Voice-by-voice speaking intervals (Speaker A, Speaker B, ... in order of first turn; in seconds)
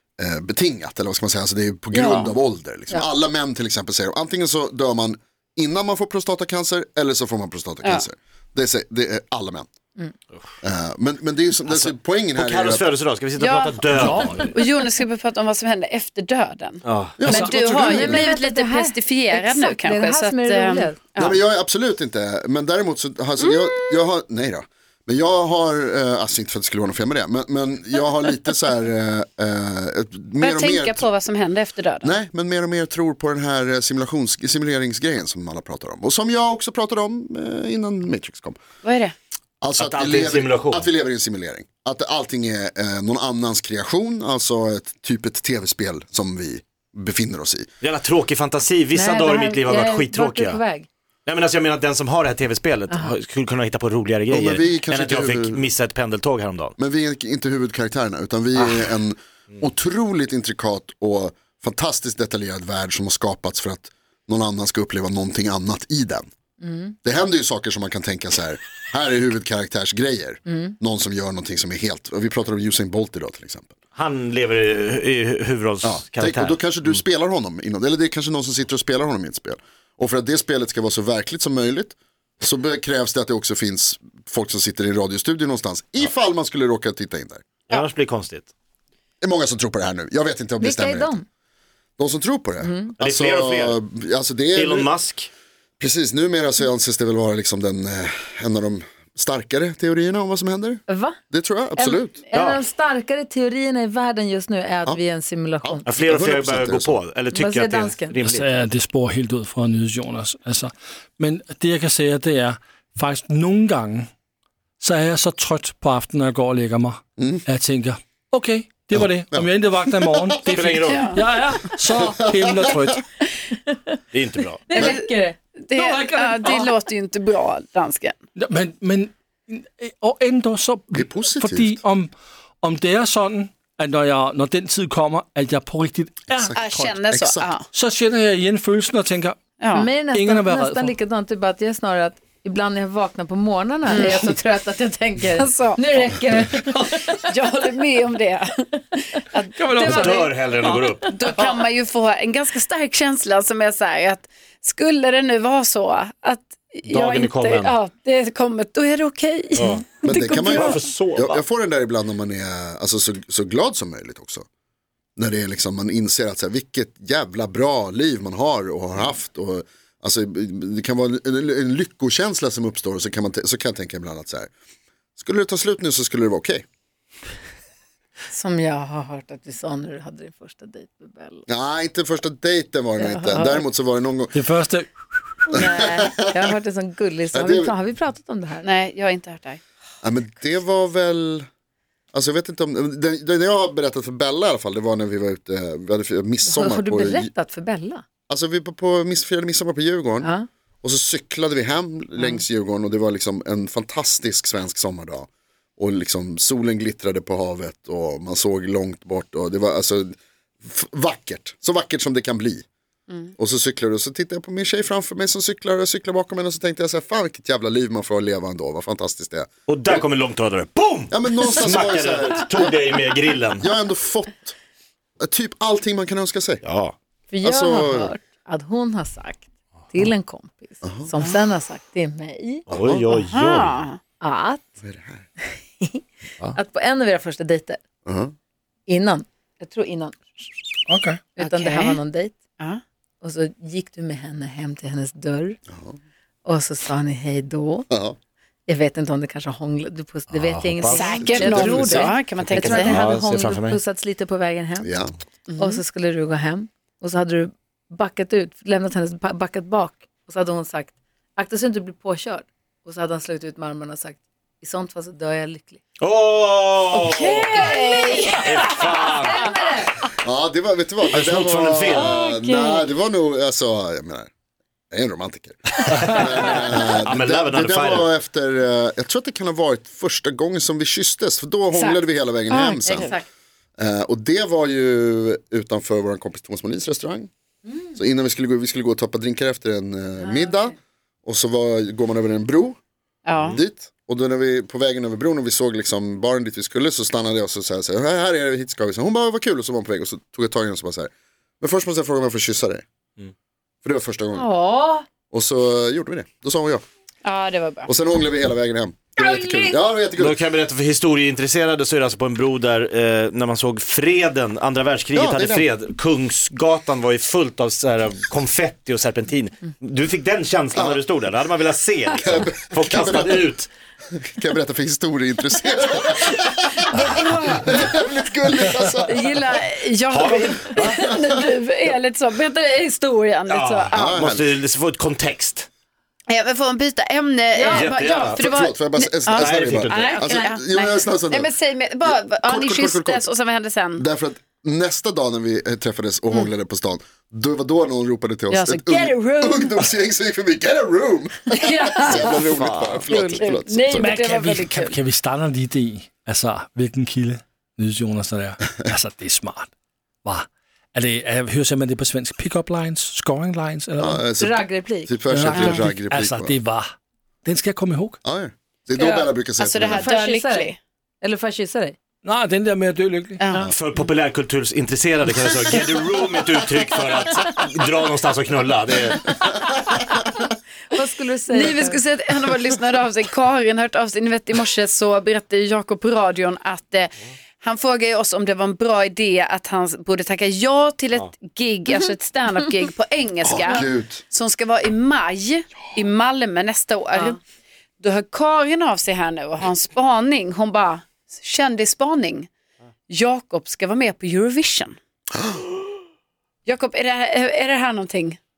Speaker A: 0.2-9.7, 10.6-12.9, 17.2-18.3, 21.2-31.1, 32.0-38.6, 39.6-47.7, 54.3-55.7, 56.8-66.3, 67.0-73.7, 75.8-87.4, 89.2-91.2, 92.0-94.9, 95.8-102.2, 105.6-107.0, 117.2-117.4, 118.9-120.5, 121.9-122.9, 130.9-131.8, 136.3-137.5, 160.0-164.4, 165.2-174.5, 175.2-176.6, 181.5-184.4, 185.6-186.4, 187.3-187.7, 190.0-191.5, 192.1-197.3, 198.3-200.3, 200.8-205.3, 205.8-212.6, 213.4-220.0, 221.1-222.8, 223.6-224.6, 225.2-226.6, 227.4-228.1, 230.8-231.1, 232.7-233.1, 234.8-235.2, 238.1-238.3, 245.7-245.9, 247.9-248.2, 251.2-251.8, 254.8-255.1, 270.2-274.3, 274.9-283.1, 283.8-287.3, 287.9-292.8, 293.5-301.1, 301.6-302.8, 303.8-304.5, 305.3-306.8, 307.9-310.4, 315.1-315.7, 320.7-321.0, 322.2-323.5, 324.1-329.2, 333.9-334.4, 338.3-341.5, 342.0-343.3, 344.0-354.1, 364.0-366.6, 368.2-370.1, 393.4-394.2
Speaker B: 1.9-2.3, 13.4-21.4, 23.4-23.7, 30.4-32.1, 38.8-39.1, 120.9-121.2, 124.7-125.0, 125.7-128.2, 136.6-137.7, 139.6-139.9, 143.9-144.3, 145.3-145.8, 147.1-148.5, 149.2-150.2, 151.0-160.8, 188.6-189.6, 233.1-234.0, 241.4-242.0, 250.9-253.0, 255.5-255.8, 266.9-268.9, 271.9-272.9, 281.7-283.2, 293.2-293.6, 307.2-307.9, 329.0-334.2, 336.3-344.0, 348.5-349.8, 351.5-355.0, 369.6-370.8, 373.4-373.7, 381.5-397.4, 398.0-402.5, 403.1-404.9, 406.6-408.4
Speaker C: 11.7-14.5, 16.8-17.2, 39.8-40.9, 47.8-50.6, 51.2-56.7, 58.5-58.9, 73.9-77.0, 87.7-88.5, 93.0-93.8, 94.5-95.3, 102.3-102.6, 105.8-108.6, 120.5-121.1, 124.1-124.7, 149.8-151.1, 156.9-157.7, 159.6-159.8, 160.4-161.4, 219.7-223.7, 226.6-226.9, 232.7-233.8, 250.3-253.8, 266.0-267.6, 268.4-269.6, 271.1-272.1, 275.9-278.1, 310.1-323.7, 330.1-331.0, 333.5-335.7, 337.7-338.5, 339.3-340.1, 352.1-353.1, 373.6-379.3
Speaker D: 13.9-14.5, 108.2-114.1, 114.8-123.0, 128.4-136.9, 137.7-139.4, 140.1-140.9, 149.6-151.5, 184.3-184.9, 240.9-241.2, 353.9-359.7, 360.2-364.2, 365.3-368.2, 372.2-373.4
Speaker E: 17.7-21.0, 48.9-50.9, 66.6-66.9, 70.5-70.7, 90.6-91.2, 92.6-92.9, 100.9-101.2, 101.8-105.8, 107.3-108.1, 123.7-123.9, 124.7-126.7, 139.7-147.2, 149.8-150.3, 178.3-181.4, 183.0-183.6, 185.5-188.7, 196.4-198.0, 200.2-200.5, 227.3-232.6, 234.2-234.6, 235.8-237.8, 238.9-240.2, 241.3-242.3, 243.2-245.6, 246.4-247.9, 248.7-254.9, 255.6-265.8, 267.2-268.4, 269.2-270.0, 290.2-290.6, 304.3-305.0, 309.2-309.8, 326.9-327.8, 337.5-337.9, 364.4-365.7, 368.9-369.3, 369.9-371.9, 380.9-382.0